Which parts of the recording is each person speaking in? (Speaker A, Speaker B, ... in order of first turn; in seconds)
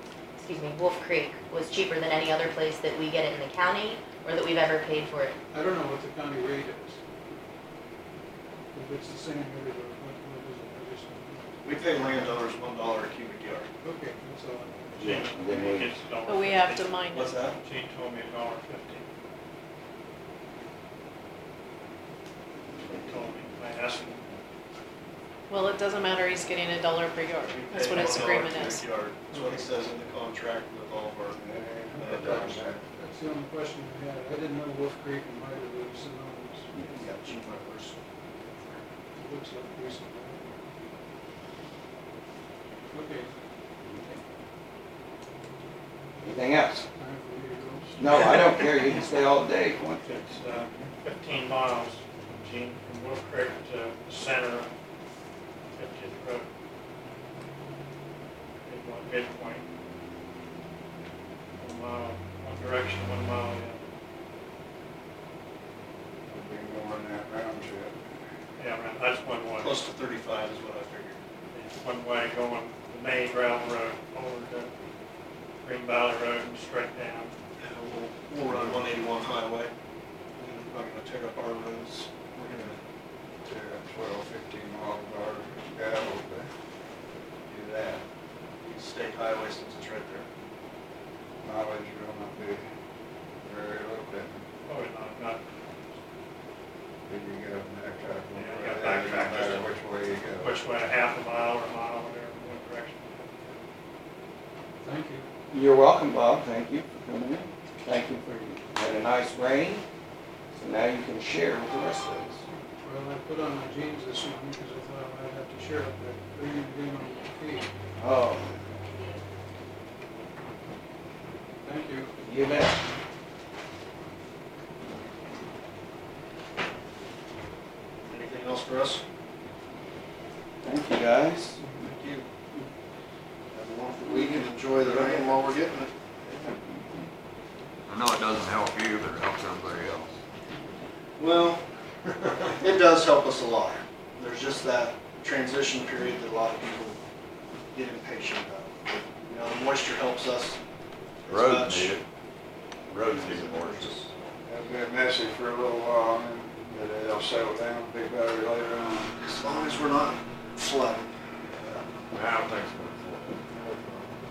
Speaker A: 0.4-5.4
Speaker B: 5.5-7.0, 8.7-11.5, 13.8-15.2, 29.3-29.7, 32.2-36.7, 39.1-40.6, 42.9-43.3, 46.9-48.0, 104.8-105.3, 112.8-117.7, 121.6-122.1
Speaker C: 11.6-13.7, 17.1-17.6, 27.5-31.4, 31.9-32.7, 36.9-38.8, 69.6-71.2, 77.6-79.7, 80.4-82.8, 88.6-90.3, 128.1-129.0, 131.7-132.3, 133.5-135.9, 141.2-141.6, 142.3-147.0, 147.7-150.6, 151.2-152.0, 153.0-154.1, 159.2-161.1, 163.5-164.1
Speaker D: 14.9-15.9, 43.9-44.2, 46.2-46.9, 48.0-50.2, 105.5-109.8, 110.5-112.4, 118.0-118.6, 122.2-122.9, 130.6-131.6
Speaker E: 15.0-19.1, 22.8-24.2, 27.5-28.8, 50.0-54.7, 55.7-56.5, 58.6-59.6, 61.6-63.8, 68.6-69.8, 71.5-74.7, 75.6-77.3, 94.7-95.4, 98.3-99.7, 100.4-103.6
Speaker F: 16.2-17.4, 25.5-28.9
Speaker G: 31.3-32.8, 66.3-68.0, 78.5-78.8, 83.4-86.5, 87.5-88.0, 91.4-92.6, 93.4-94.4, 97.1-100.5, 154.4-159.2
Speaker H: 137.9-140.1, 151.3-152.0, 152.9-153.9, 162.1-163.4